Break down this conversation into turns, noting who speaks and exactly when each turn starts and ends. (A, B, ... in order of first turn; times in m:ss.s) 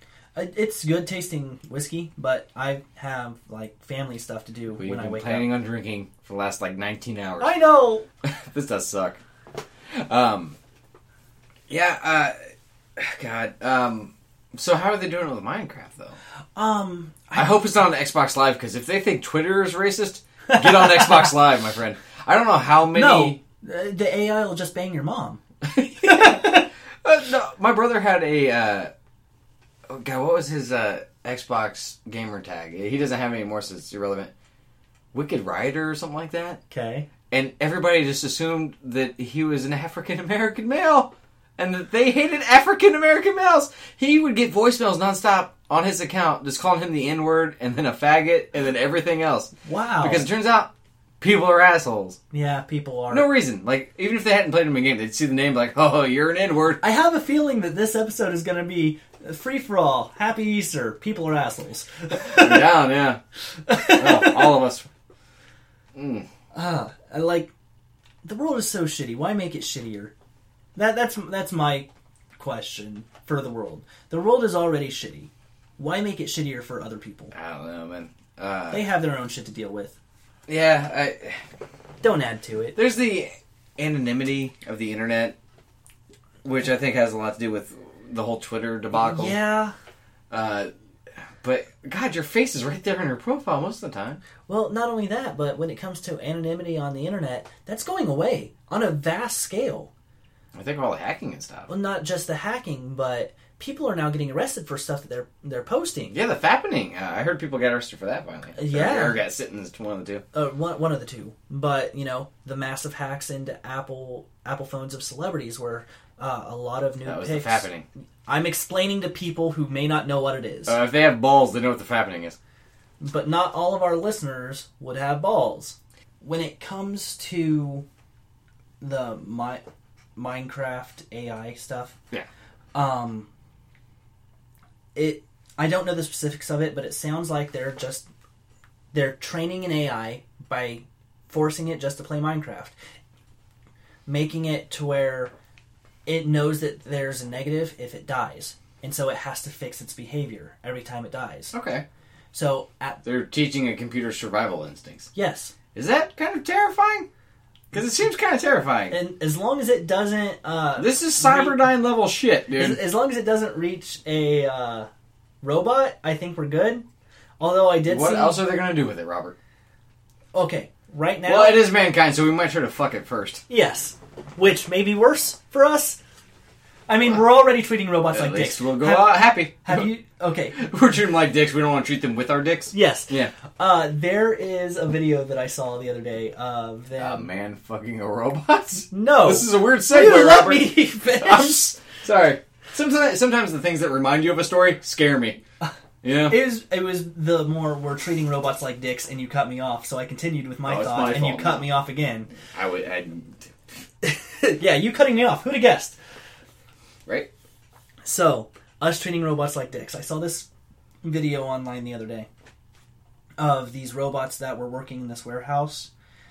0:00.3-0:05.5 A
0:04.8-0:07.6 B
0:07.4-0:08.0 A
0:08.2-0:09.2 B
0:09.9-0:10.6 B
0:11.7-0:12.3 B
0:13.0-0:16.2 B
0:16.6-0:17.6 A
0:17.3-0:23.4 B
0:20.5-0:21.3 A
0:22.9-0:25.4 A
0:25.6-0:28.9 B
0:26.0-0:26.7 A
0:29.9-0:34.3 B
0:35.1-0:36.6 B
0:36.7-0:37.1 A
0:37.3-0:52.2 B
0:49.6-0:50.3 A
0:52.3-0:53.3 A
0:53.1-0:56.8 B
0:56.8-1:02.7 A
1:02.3-1:03.2 B
1:03.7-1:04.6 A
1:03.8-1:04.9 B
1:05.9-1:06.3 B
1:06.5-1:07.5 A
1:08.2-1:10.1 A
1:10.7-1:17.3 A
1:17.3-1:18.9 B
1:18.7-1:19.9 A
1:20.5-1:21.4 B
1:22.0-1:22.8 A
1:22.7-1:25.3 B
1:26.4-1:29.4 B
1:28.9-1:29.7 A
1:30.3-1:30.7 B
1:31.4-1:34.2 B
1:34.5-1:39.9 A
1:40.5-1:41.7 B
1:41.7-1:46.2 A
1:46.1-1:50.2 B
1:48.5-1:49.2 A
1:50.3-1:57.7 A
1:57.0-1:57.8 B
1:58.3-2:00.8 A
2:00.7-2:02.4 B
2:03.0-2:07.8 A
2:08.8-2:09.6 A
2:10.2-2:12.0 A
2:12.7-2:13.3 A
2:14.9-2:18.1 A
2:18.9-2:22.7 A
2:24.1-2:25.3 A
2:26.0-2:31.5 A
2:31.5-2:31.8 B
2:32.3-2:33.0 A
2:33.0-2:35.1 B
2:35.1-2:35.5 A
2:35.7-2:37.1 B
2:37.7-2:39.0 B
2:38.9-2:41.7 A
2:40.8-2:42.8 B
2:42.5-2:44.9 A
2:45.4-2:46.8 A
2:47.4-2:48.4 A
2:47.9-2:49.3 B
2:50.3-2:51.6 A
2:51.3-2:53.4 B
2:53.5-2:56.0 A
2:56.9-3:00.6 A
2:58.1-2:59.9 B
3:00.5-3:03.3 B
3:02.7-3:07.3 A
3:07.0-3:15.4 B
3:08.9-3:11.7 A
3:16.0-3:16.4 B
3:16.3-3:22.3 A
3:20.6-3:21.7 B
3:22.4-3:23.6 B
3:24.0-3:26.0 A
3:28.0-3:30.5 A
3:31.0-3:32.3 A
3:33.4-3:35.9 A